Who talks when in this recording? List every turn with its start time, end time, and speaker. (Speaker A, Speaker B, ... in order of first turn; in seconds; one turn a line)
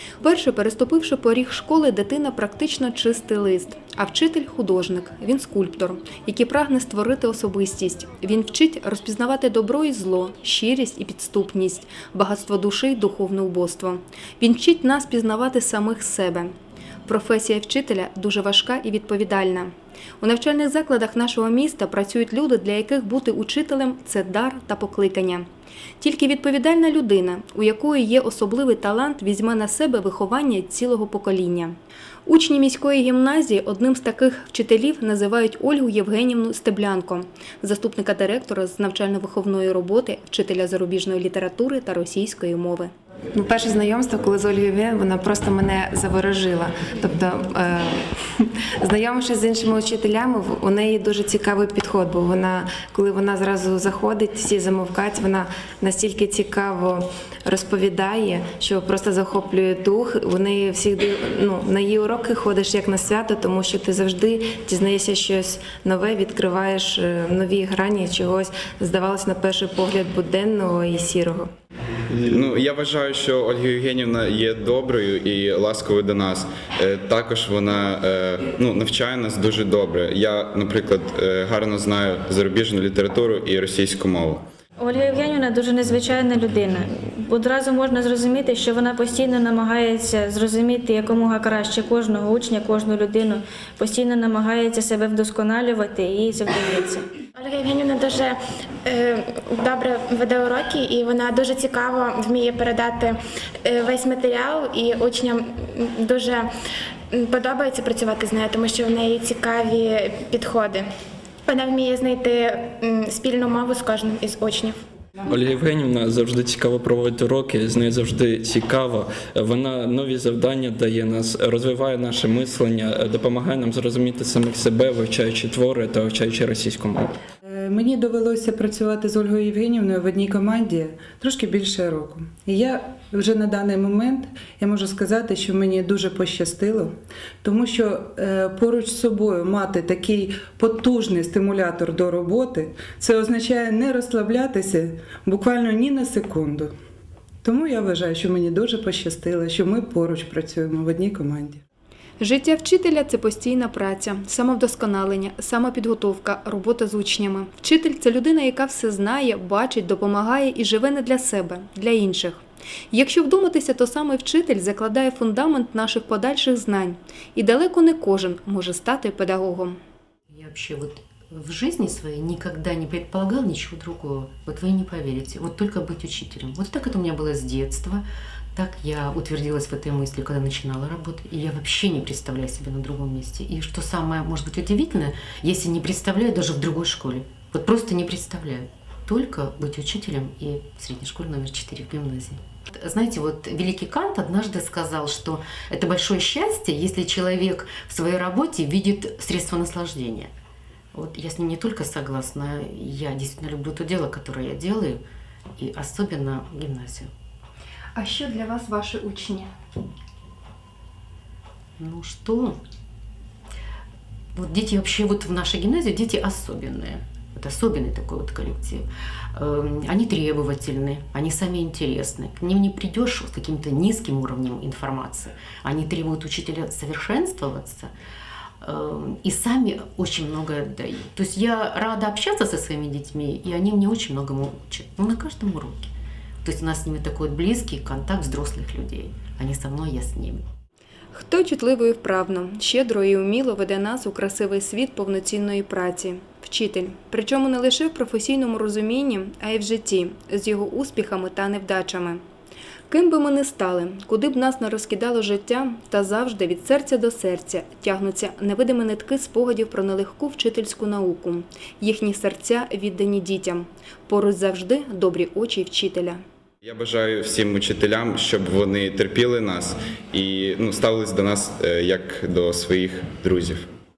Speaker A: 0.2-16.5
Speaker A: 17.1-25.4
Speaker A: 26.0-31.7
Speaker A: 32.2-42.9
Speaker B: 43.3-71.5
Speaker C: 72.2-84.4
Speaker D: 84.8-97.0
Speaker E: 97.3-106.5
Speaker E: 107.1-110.9
Speaker E: 111.5-114.8
Speaker F: 115.3-127.1
Speaker G: 127.5-146.7
Speaker G: 147.4-151.6
Speaker A: 152.2-169.8
Speaker H: 170.3-178.0
Speaker H: 178.5-200.3
Speaker H: 200.9-205.0
Speaker H: 205.6-207.1
Speaker A: 207.9-209.5
Speaker H: 211.8-212.6
Speaker H: 214.3-227.9
Speaker H: 228.6-235.9
Speaker H: 236.4-240.4
Speaker A: 241.1-252.2
Speaker A: 252.9-266.2
Speaker C: 266.6-273.6